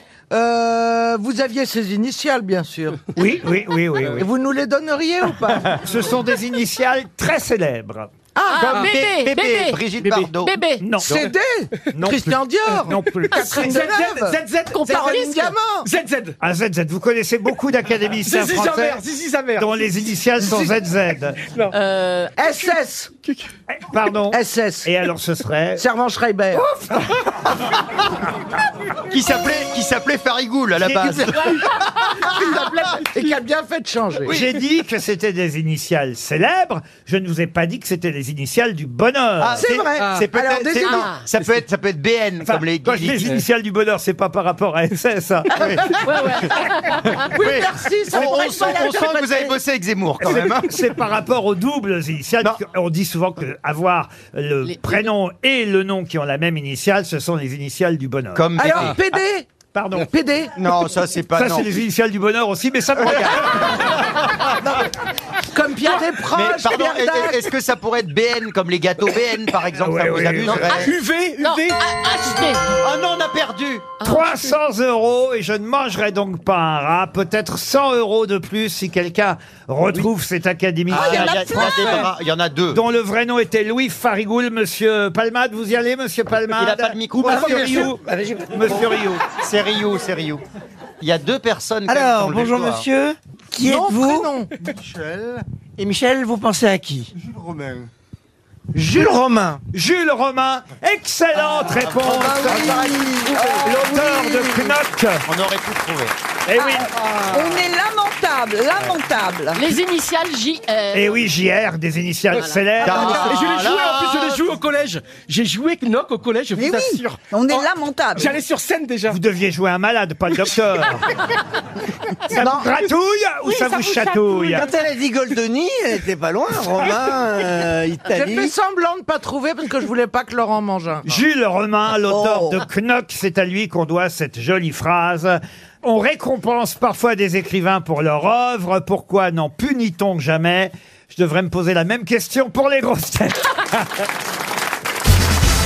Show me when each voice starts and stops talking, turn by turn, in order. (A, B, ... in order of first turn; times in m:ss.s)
0:00.3-0:03.0 A
0:03.1-0:04.3 B
0:04.1-0:05.8 A
0:05.7-0:08.1 B
0:08.3-0:08.8 A
0:08.5-0:09.8 C
0:08.6-0:10.5 D
0:10.0-0:10.3 E
0:10.4-0:10.8 C
0:10.8-0:11.3 B
0:11.0-0:15.9 A
0:11.9-0:13.6 B
0:13.3-0:16.4 E
0:14.7-0:15.5 C
0:16.4-0:19.0 B
0:18.2-0:19.9 E
0:19.6-0:21.4 B
0:21.7-0:22.3 C
0:22.4-0:23.1 A
0:23.7-0:25.8 B
0:24.3-0:24.9 A
0:25.8-0:26.7 A
0:29.1-0:31.8 D
0:30.8-0:31.6 B
0:32.4-0:34.3 A
0:32.4-0:32.7 D
0:34.2-0:39.7 B
0:39.4-0:43.4 D
0:39.6-0:41.2 A
0:40.0-0:40.3 E
0:40.8-0:41.2 C
0:42.4-0:45.8 B
0:45.5-0:50.8 D
0:46.0-0:47.2 C
0:47.3-0:49.5 A
0:48.1-0:49.5 F
0:50.2-0:58.9 B
0:58.3-0:59.0 D
0:58.6-1:00.5 A
0:59.7-1:00.1 B
1:00.5-1:01.7 D
1:01.4-1:03.8 B
1:03.0-1:04.7 D
1:05.5-1:07.4 A
1:06.3-1:10.9 D
1:09.8-1:10.9 B
1:10.5-1:11.8 E
1:11.4-1:12.7 C
1:12.8-1:13.9 D
1:14.0-1:14.3 C
1:14.0-1:22.1 B
1:20.9-1:22.1 F
1:20.9-1:22.8 D
1:22.7-1:29.2 B
1:26.5-1:27.9 D
1:27.3-1:28.9 G
1:29.4-1:30.4 D
1:31.0-1:32.8 D
1:31.9-1:34.3 G
1:33.6-1:34.5 A
1:34.9-1:37.8 G
1:38.7-1:39.6 G
1:39.7-1:42.9 B
1:41.8-1:42.4 D
1:42.1-1:44.7 F
1:42.4-1:43.8 A
1:43.6-1:45.2 B
1:45.2-1:46.1 D
1:46.5-1:46.9 B
1:46.5-1:49.6 F
1:49.5-1:51.2 C
1:50.9-1:53.3 B
1:52.8-1:54.4 D
1:52.8-1:59.2 E
1:56.6-1:58.3 F
1:59.1-2:01.0 B
2:02.3-2:04.7 B
2:02.3-2:02.7 A
2:03.4-2:04.7 E
2:04.5-2:08.5 G
2:08.1-2:11.0 A
2:11.0-2:24.0 B
2:12.1-2:12.6 F